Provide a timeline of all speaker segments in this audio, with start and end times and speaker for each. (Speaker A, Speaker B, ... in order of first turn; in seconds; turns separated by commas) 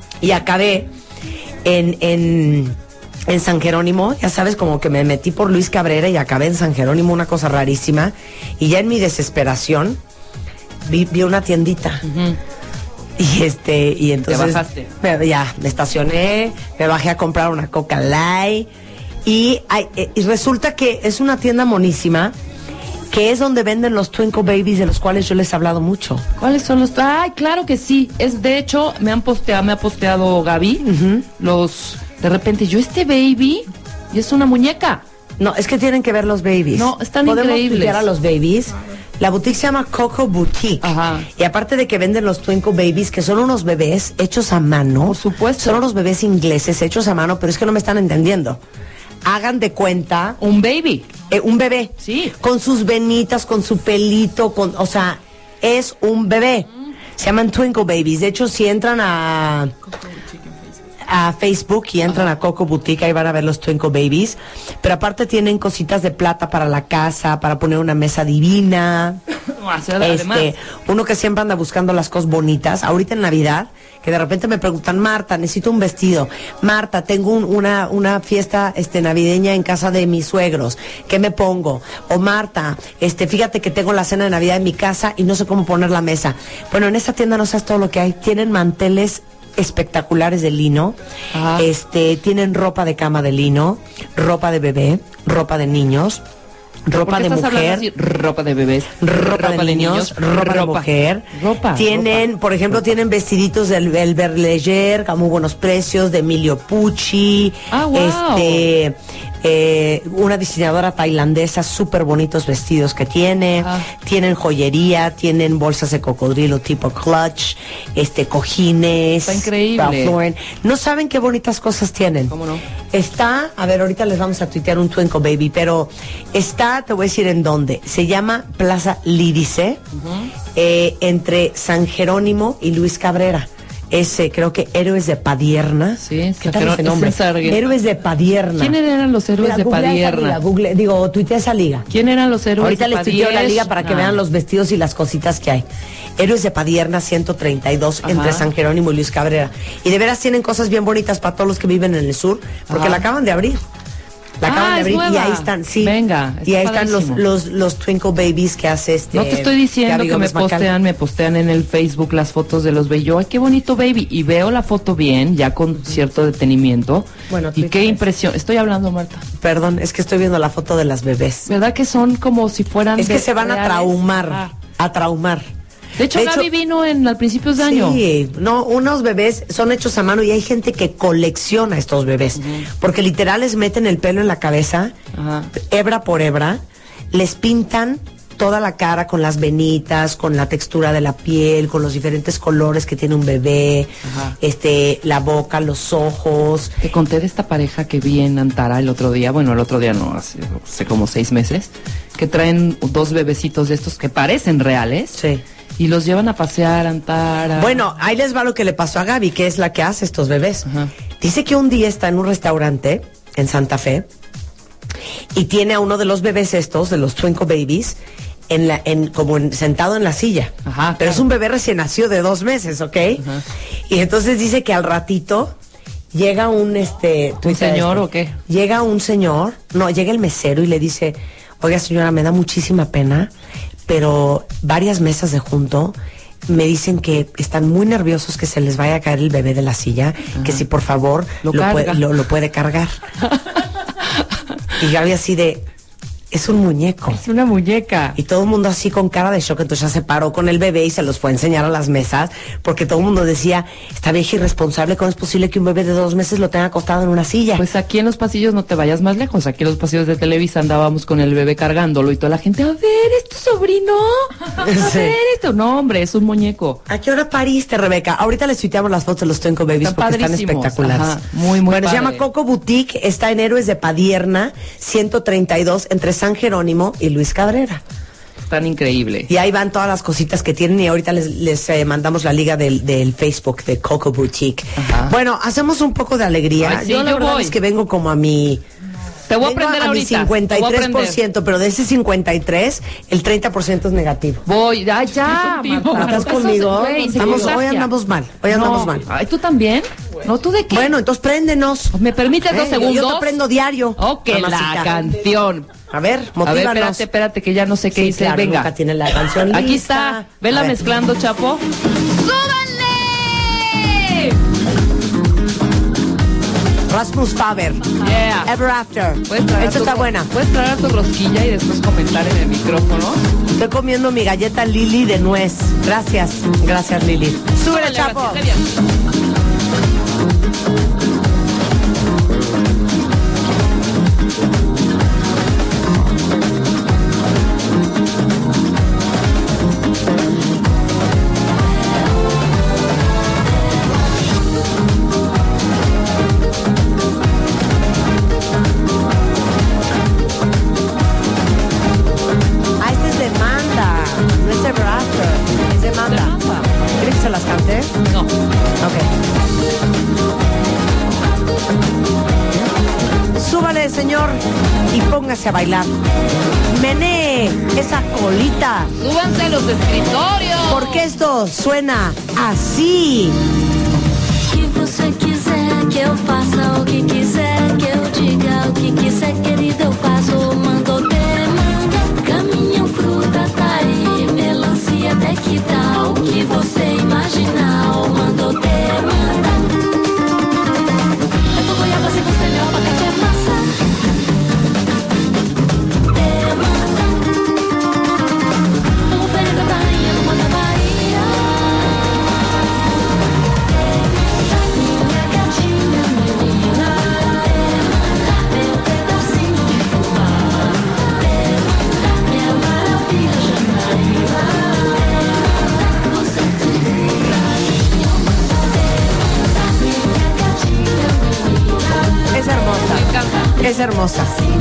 Speaker A: 0.2-0.9, Speaker A: 1.6-2.8, Speaker A: 3.3-10.0, Speaker A: 10.8-12.0, Speaker B: 12.0-12.4, Speaker A: 13.2-18.7, Speaker B: 14.3-14.9, Speaker A: 19.2-22.4, Speaker A: 23.1-26.2, Speaker B: 26.4-30.9, Speaker A: 30.8-31.3, Speaker B: 31.4-35.0, Speaker A: 35.4-48.6, Speaker B: 36.8-38.1, Speaker B: 40.8-41.3, Speaker B: 45.0-45.8, Speaker A: 49.2-50.4, Speaker B: 50.4-51.1, Speaker A: 51.3-59.7, Speaker B: 52.0-52.3, Speaker A: 61.0-69.2, Speaker B: 69.5-70.5, Speaker A: 70.0-91.0, Speaker B: 91.3-91.7, Speaker A: 91.5-96.2, Speaker A: 96.9-97.9, Speaker B: 97.0-102.3, Speaker A: 99.0-122.3, Speaker B: 107.7-108.7, Speaker B: 113.6-113.9, Speaker B: 119.3-120.2, Speaker B: 122.3-122.6, Speaker A: 122.9-129.8, Speaker B: 129.9-130.3, Speaker A: 130.6-138.8, Speaker B: 136.0-137.7, Speaker B: 138.6-140.4, Speaker A: 139.4-141.9, Speaker B: 141.9-144.2, Speaker A: 142.6-145.7, Speaker A: 146.2-153.6, Speaker B: 148.0-148.5, Speaker B: 152.7-153.1, Speaker A: 154.4-160.7, Speaker B: 154.4-157.2, Speaker B: 159.1-169.3, Speaker A: 167.3-168.1, Speaker A: 169.4-171.5, Speaker B: 171.5-174.5, Speaker A: 173.0-175.5, Speaker B: 176.0-178.0, Speaker A: 176.1-176.5, Speaker A: 177.6-184.9, Speaker B: 182.4-182.7, Speaker B: 185.1-185.5, Speaker A: 185.6-196.7, Speaker B: 194.1-194.3, Speaker B: 196.8-205.2, Speaker A: 205.2-205.4, Speaker B: 205.8-207.8, Speaker A: 207.6-210.7, Speaker A: 211.2-214.1, Speaker A: 215.3-218.0, Speaker A: 218.5-223.2, Speaker B: 220.7-221.2, Speaker B: 223.2-223.4, Speaker A: 223.9-225.6, Speaker A: 226.1-233.3, Speaker B: 227.5-228.4, Speaker A: 233.9-236.0, Speaker A: 236.5-243.0, Speaker B: 240.3-240.6, Speaker B: 241.4-242.0, Speaker A: 244.8-245.7, Speaker A: 246.3-247.2, Speaker B: 247.1-248.2, Speaker A: 248.2-257.7, Speaker B: 257.6-266.8, Speaker A: 264.6-265.2, Speaker A: 266.9-277.8, Speaker B: 269.8-272.2, Speaker B: 278.5-279.3, Speaker A: 279.3-288.6, Speaker B: 284.8-285.1, Speaker B: 286.6-287.6, Speaker B: 289.3-291.2, Speaker A: 289.4-294.4, Speaker B: 294.5-297.9, Speaker A: 295.5-299.1, Speaker B: 298.5-300.9, Speaker A: 300.7-304.9, Speaker B: 301.9-303.4, Speaker B: 304.0-305.7, Speaker A: 305.9-307.1, Speaker B: 306.4-308.7, Speaker A: 307.9-310.8, Speaker B: 309.4-314.4, Speaker A: 316.9-317.9, Speaker B: 318.0-318.5, Speaker A: 318.4-320.3, Speaker B: 319.3-323.2, Speaker A: 323.5-328.4, Speaker B: 327.6-328.7, Speaker A: 352.8-356.4, Speaker B: 356.1-356.7, Speaker A: 357.0-357.9, Speaker A: 358.8-359.1, Speaker A: 363.4-365.9, Speaker A: 366.7-368.9, Speaker B: 369.0-371.1, Speaker A: 370.7-373.4, Speaker C: 374.5-389.7, Speaker C: 391.6-393.8, Speaker C: 396.1-397.2, Speaker C: 399.1-401.8, Speaker C: 404.5-417.0, Speaker C: 418.2-422.1, Speaker A: 422.3-423.1, Speaker B: 422.9-423.6, Speaker A: 423.6-424.4